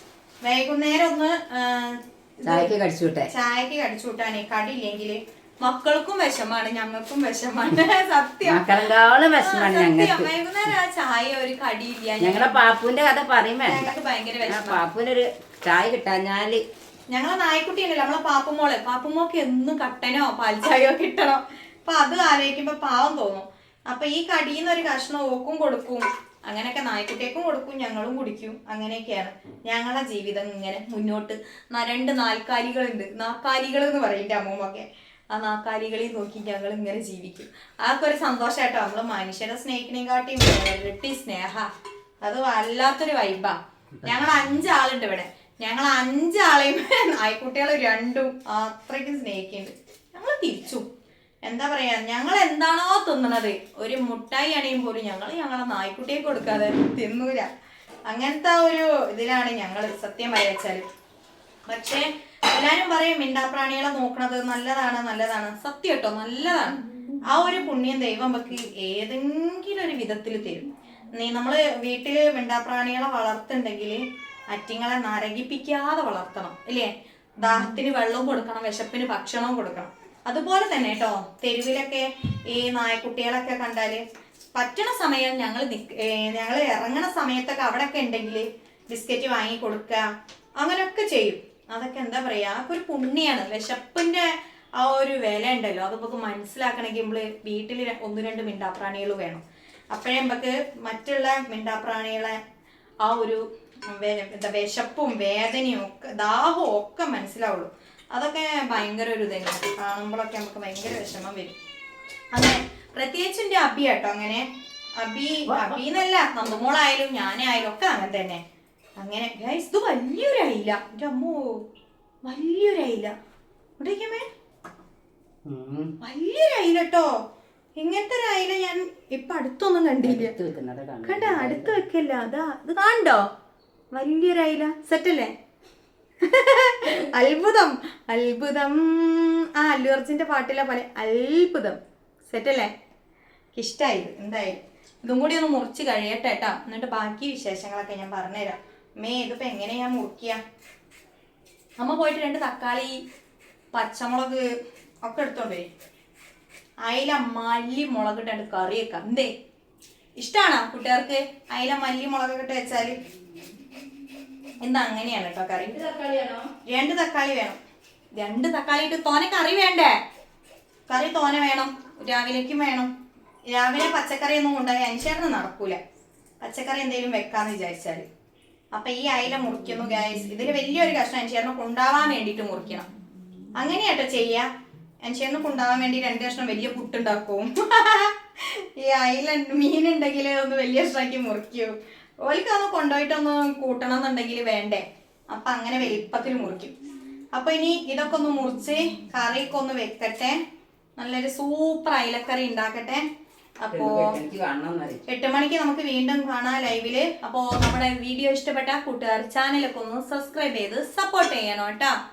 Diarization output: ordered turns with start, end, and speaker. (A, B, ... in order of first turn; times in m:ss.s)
0:00.4-0:02.7 A
0:02.4-0:03.3 B
0:03.3-0:08.7 A
0:08.4-0:10.3 B
0:09.3-0:12.6 A
0:12.2-0:13.9 B
0:13.6-0:14.8 A
0:14.4-0:16.6 B
0:17.1-0:41.7 A
0:42.2-0:50.8 A
0:51.4-0:57.5 A
0:58.1-1:00.8 A
1:01.7-1:24.0 A
1:24.6-1:30.0 A
1:30.6-1:34.3 A
1:34.8-1:42.4 A
1:43.0-1:51.6 A
1:52.3-1:58.4 A
1:55.5-1:55.8 B
1:59.0-2:01.6 A
2:02.2-2:03.1 A
2:03.8-2:04.2 A
2:05.4-2:06.0 B
2:06.0-2:07.1 A
2:07.8-2:10.3 A
2:10.0-2:11.8 B
2:11.0-2:13.3 A
2:13.9-2:15.3 A
2:16.2-2:22.7 A
2:23.5-2:30.4 A
2:31.8-2:33.0 A
2:33.7-2:34.4 A
2:35.0-2:35.7 A
2:36.8-2:39.3 A
2:40.2-2:43.0 A
2:44.6-2:45.8 A
2:45.6-2:46.5 B
2:46.6-2:47.6 A
2:48.2-2:50.0 A
2:50.9-2:52.9 A
2:53.5-2:55.8 A
2:56.4-2:58.0 A
2:58.7-3:02.8 A
3:03.6-3:04.5 A
3:05.0-3:16.7 A
3:17.3-3:20.4 A
3:21.0-3:23.0 A
3:23.6-3:24.2 A
3:23.7-3:25.0 B
3:25.1-3:31.9 A